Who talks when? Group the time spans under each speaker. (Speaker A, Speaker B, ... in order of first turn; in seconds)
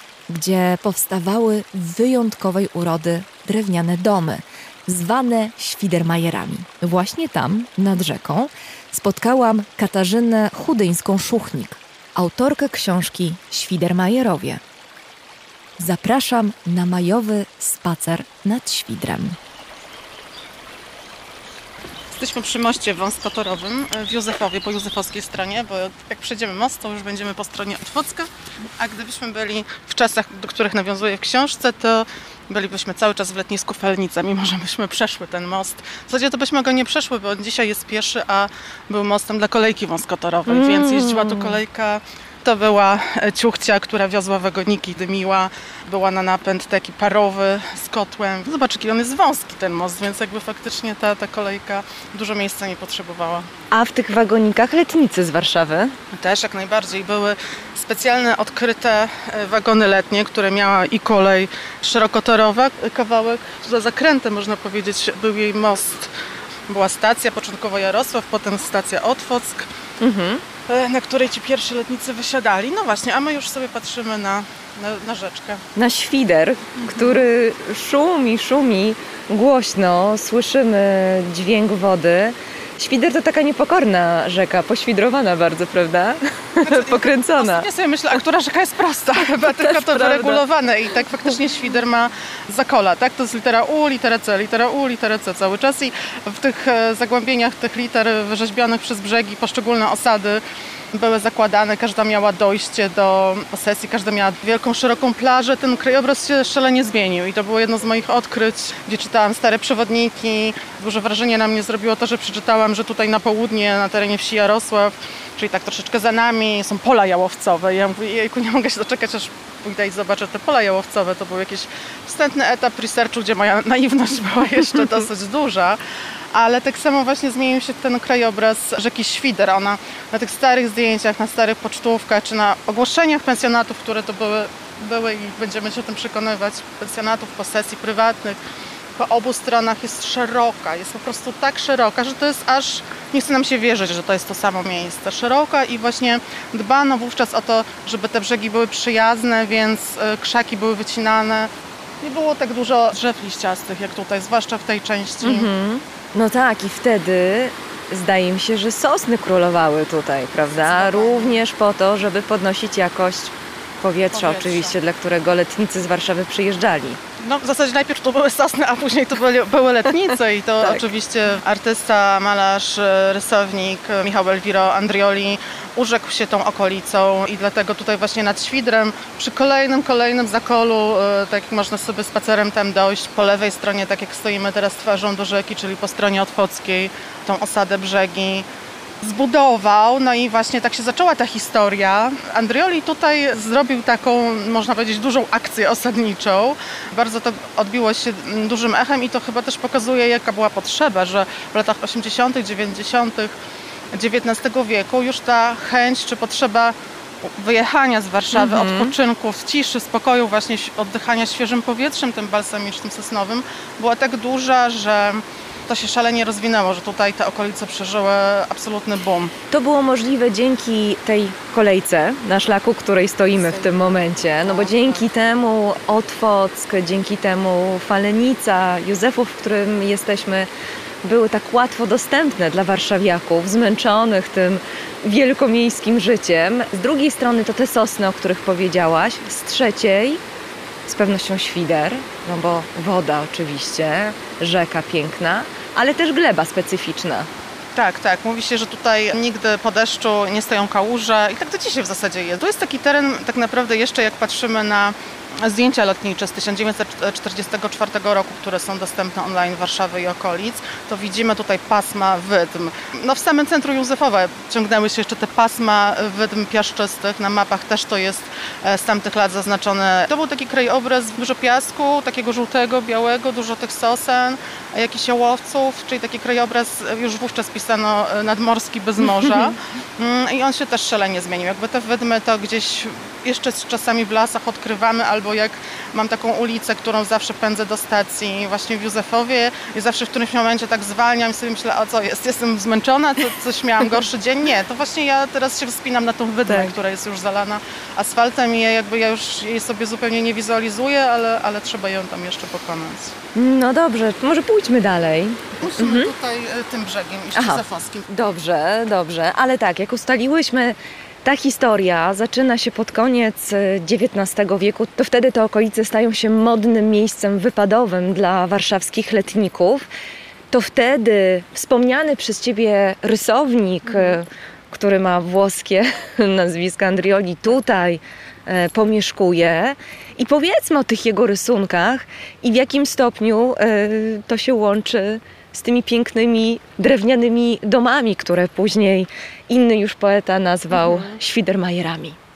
Speaker A: 0.3-14.6, 15.8-19.4, 40.5-41.6, 53.7-56.0, 70.0-70.4, 75.7-87.7, 89.4-90.4, 155.2-167.0, 208.3-208.9, 219.5-230.5, 231.0-240.2, 240.9-247.3, 296.4-296.7, 303.3-306.1, 307.3-319.9, 320.5-342.2
Speaker B: 22.1-53.5, 56.1-66.1, 66.7-69.7, 70.7-75.6, 76.8-77.2, 86.6-100.4, 100.9-125.8, 126.3-138.4, 138.9-155.5, 160.5-161.4, 164.1-164.8, 167.2-188.5, 189.0-203.3, 203.9-219.3, 223.3-225.0, 247.7-303.1, 305.6-308.0, 340.7-341.2